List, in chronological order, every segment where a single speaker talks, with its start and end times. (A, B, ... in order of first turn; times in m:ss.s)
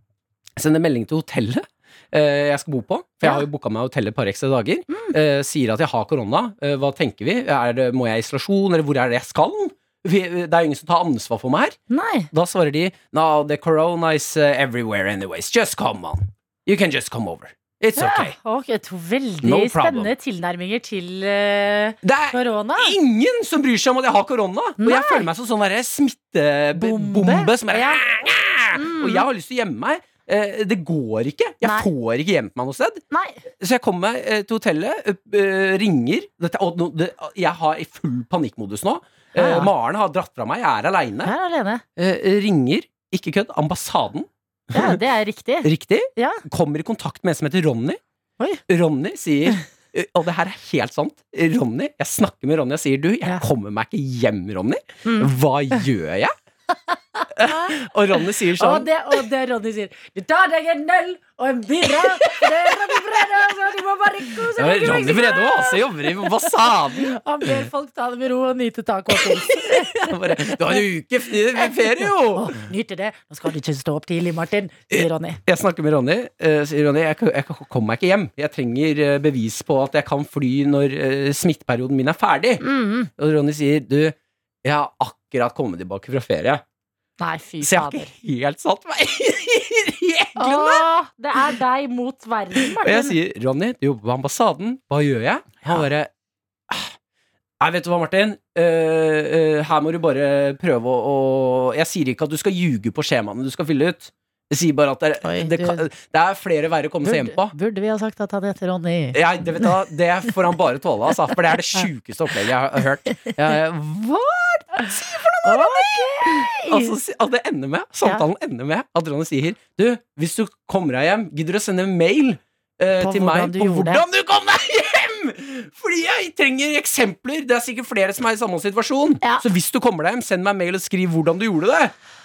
0:00.6-0:11.8 A
0:11.9-0:12.3 B
0:12.3-0:18.4 A
0:18.0-0:22.9 B
0:19.4-0:20.1 A
0:22.0-0:33.0 A
0:24.8-0:25.2 B
0:26.8-0:28.0 B
0:28.7-0:29.2 B
0:31.6-0:31.9 B
0:33.1-0:33.4 B
0:33.6-0:41.3 A
0:39.3-0:39.7 B
0:41.2-0:41.8 B
0:42.0-0:45.0 A
0:44.7-0:46.4 B
0:45.6-0:48.0 A
0:48.7-0:56.3 A
0:55.0-0:55.3 B
0:57.2-0:57.7 B
0:57.3-0:58.9 A
0:58.6-1:10.8 B
1:02.0-1:03.0 A
1:04.5-1:07.7 A
1:09.1-1:12.6 A
1:12.3-1:15.4 B
1:14.9-1:22.6 A
1:22.6-1:23.1 B
1:23.2-1:26.6 A
1:27.2-1:28.1 B
1:27.6-1:30.8 A
1:30.4-1:33.2 B
1:32.6-1:36.1 A
1:36.7-1:36.9 A
1:37.6-1:47.5 A
1:45.2-1:45.8 B
1:47.0-1:49.7 B
1:49.1-2:11.9 A
1:55.4-1:56.9 B
2:03.0-2:04.0 B